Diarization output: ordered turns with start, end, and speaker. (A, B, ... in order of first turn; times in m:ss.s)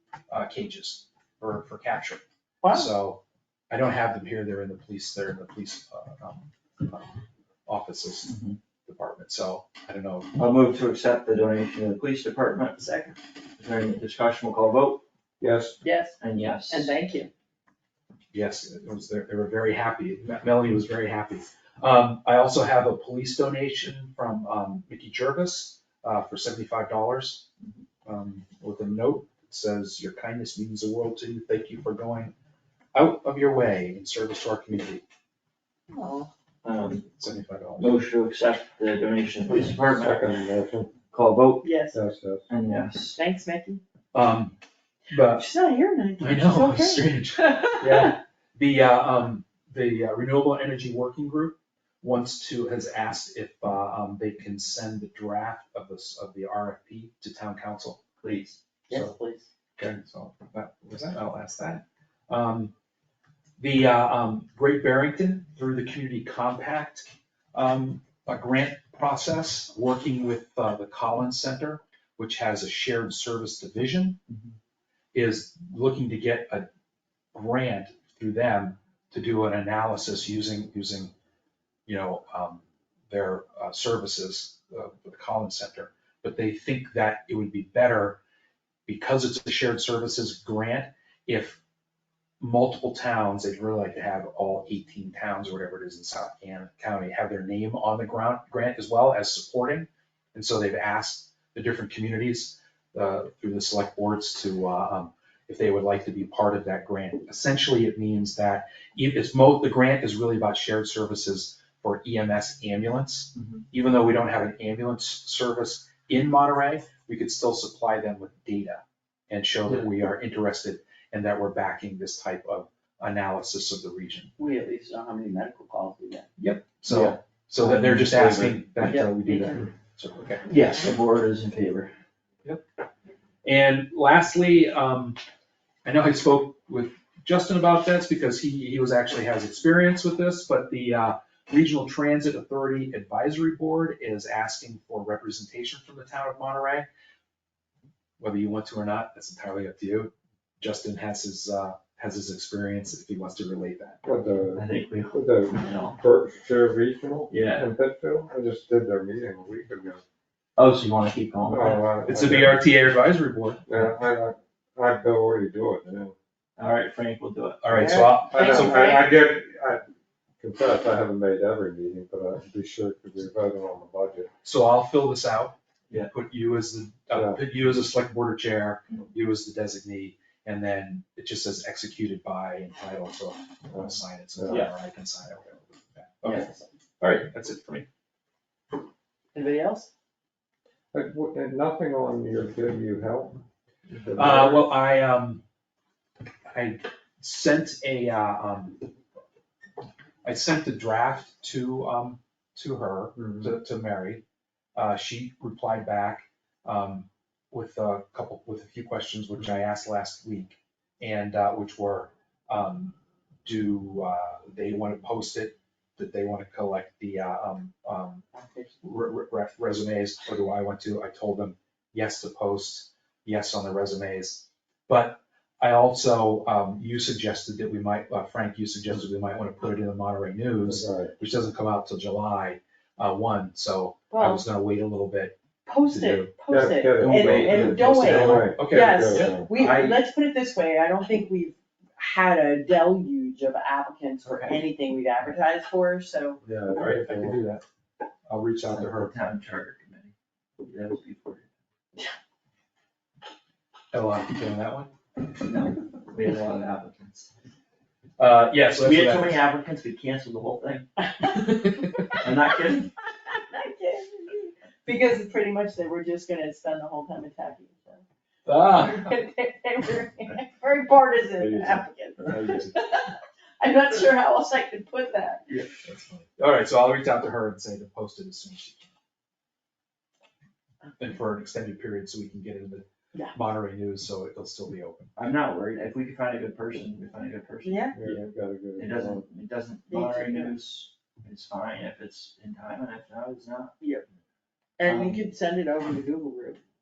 0:00.3-0:02.2 A
0:02.6-0:02.9 B
0:02.7-0:07.1 A
0:07.7-0:10.3 A
0:08.3-0:08.6 C
0:10.4-0:15.0 C
0:15.4-0:15.8 D
0:15.8-0:17.3 B
0:16.2-0:16.9 C
0:18.3-0:27.5 A
0:28.1-0:32.3 A
0:32.9-0:35.0 A
0:35.9-0:36.3 B
0:36.6-0:37.1 C
0:37.2-0:38.1 A
0:37.8-0:40.3 C
0:39.9-0:40.9 D
0:41.1-0:41.7 C
0:41.6-0:42.0 B
0:41.9-0:42.4 D
0:42.5-0:43.2 C
0:43.1-0:43.8 B
0:44.1-0:44.6 A
0:45.1-0:45.5 A
0:45.2-0:47.6 B
0:46.2-0:58.0 A
0:47.8-0:48.1 D
0:58.2-0:58.6 C
0:58.9-0:59.5 B
0:59.8-1:02.7 A
1:03.6-1:14.2 A
1:15.1-1:16.7 A
1:17.3-1:21.1 A
1:21.9-1:28.2 A
1:28.9-1:31.6 A
1:32.4-2:04.3 A
1:53.4-1:53.6 C
2:04.4-2:06.3 B
2:06.4-2:10.5 A
2:06.9-2:08.7 C
2:08.8-2:09.7 B
2:10.5-2:11.9 C
2:13.4-2:15.2 A
2:15.8-2:26.9 A
2:28.2-2:34.1 A
2:34.0-2:40.0 D
2:34.6-2:36.0 C
2:37.3-2:37.7 C
2:40.6-2:41.9 C
2:41.4-2:42.6 D
2:42.1-2:43.6 A
2:43.7-2:46.2 D
2:46.6-2:47.6 C
2:47.6-2:48.9 A
2:47.7-2:49.1 B
2:48.3-2:49.8 D
2:50.4-2:54.3 D
2:54.4-2:55.6 A
2:56.1-3:06.5 A
2:57.1-2:57.4 D
3:03.7-3:04.6 D
3:04.5-3:04.7 C
3:06.2-3:07.3 C
3:07.2-3:07.9 A
3:09.3-3:09.9 B
3:10.9-3:14.7 D
3:14.2-3:15.4 A
3:16.5-3:18.9 A
3:20.2-3:24.2 A
3:23.2-3:23.5 D
3:24.8-3:38.2 A
3:38.4-3:38.7 B
3:38.8-3:55.3 A
3:50.6-3:51.1 D
3:54.1-3:54.4 B
3:55.7-4:06.4 B
3:56.3-3:59.5 D
3:56.7-3:58.6 C
3:58.1-3:59.4 A
3:59.4-4:00.0 C
4:04.2-4:04.6 C
4:06.4-4:07.4 D
4:06.8-4:07.6 A
4:08.3-4:09.1 A
4:08.7-4:11.5 C
4:13.9-4:14.9 A
4:15.4-4:17.3 C
4:18.2-4:19.4 A
4:18.8-4:21.0 C
4:22.1-4:22.9 C
4:23.3-4:28.0 B
4:28.5-4:29.2 A
4:28.6-4:35.4 B
4:31.4-4:31.9 D
4:32.2-4:32.8 A
4:35.5-4:38.9 A
4:41.0-4:45.1 A
4:45.2-4:53.8 C
4:47.6-4:48.0 B
4:48.0-4:49.2 D
4:49.9-4:50.6 B
4:54.8-4:56.6 B
4:54.8-4:55.2 C